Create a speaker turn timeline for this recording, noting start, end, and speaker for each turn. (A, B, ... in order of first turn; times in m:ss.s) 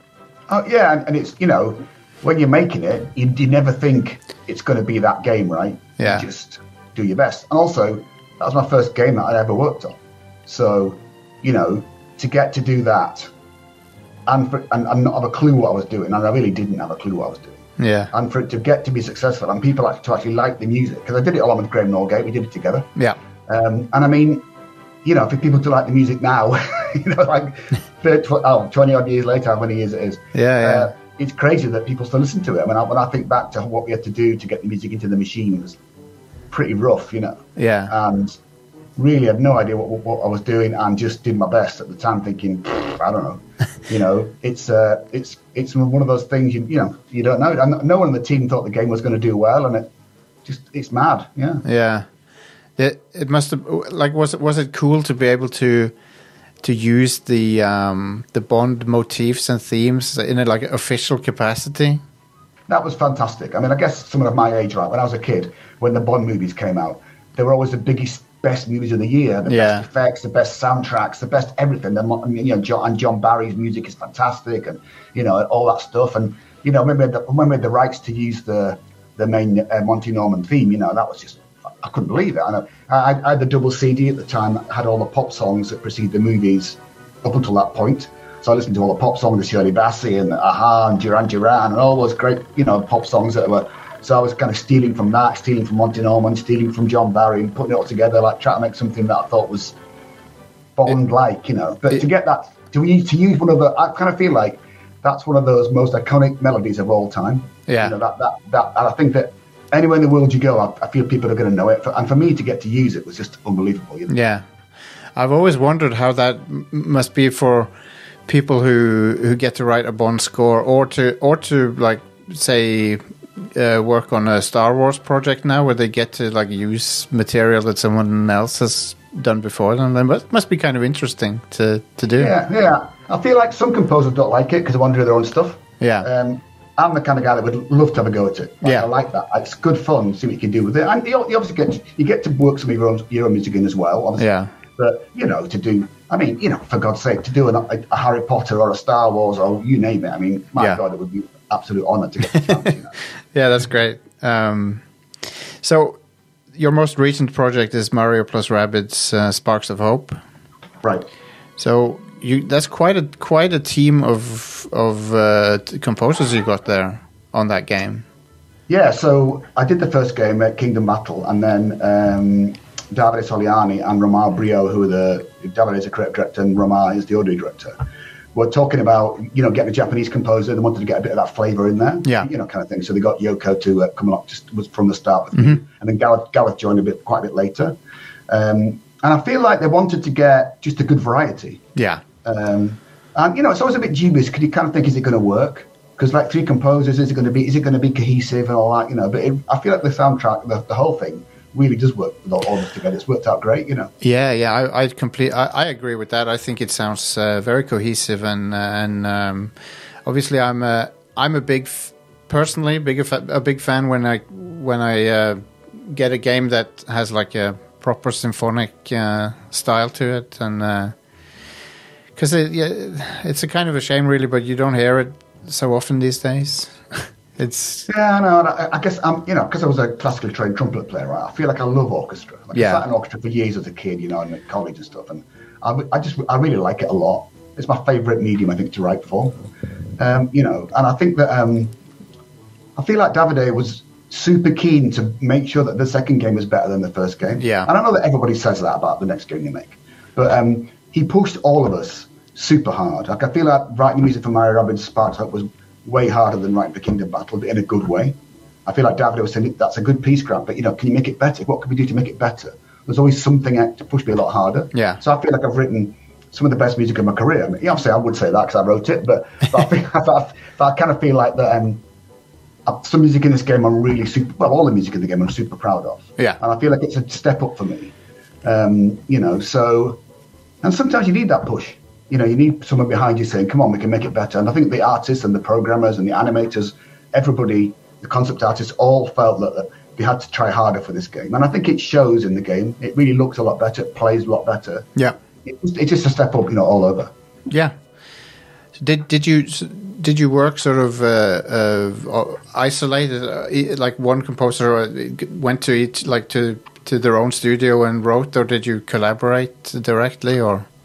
0:00.5-0:13.3 A
0:06.0-0:06.2 B
0:14.3-0:22.9 A
0:17.8-0:18.1 B
0:23.5-0:24.4 A
0:25.0-0:35.8 A
0:30.3-0:30.9 B
0:36.5-0:38.4 A
0:37.6-0:37.9 B
0:39.0-0:49.9 A
0:50.4-0:51.6 A
0:51.6-0:52.1 B
0:52.8-0:55.9 B
0:56.6-1:02.0 B
1:02.7-1:39.8 A
1:09.4-1:09.8 B
1:40.8-1:54.1 A
1:47.7-1:47.9 B
1:54.1-1:54.4 B
1:55.2-1:57.7 B
1:58.3-2:12.3 B
2:12.2-2:32.9 A
2:15.8-2:16.1 B
2:24.2-2:24.5 B
2:33.3-2:36.0 B
2:36.5-2:40.2 B
2:41.6-2:48.0 B
2:48.7-2:57.8 A
2:58.3-3:07.8 A
3:08.3-3:11.6 A
3:11.8-3:12.0 B
3:12.2-3:23.9 A
3:24.0-3:40.9 B
3:42.2-3:47.9 B
3:47.9-3:59.4 A
3:52.5-3:52.8 B
4:00.0-4:01.7 A
4:02.8-4:31.8 A
4:07.4-4:07.7 B
4:24.7-4:25.0 B
4:32.7-4:37.9 A
4:38.4-4:40.0 A
4:40.6-4:54.9 A
4:55.4-4:57.1 A
4:57.5-4:57.7 B
4:58.8-5:10.7 B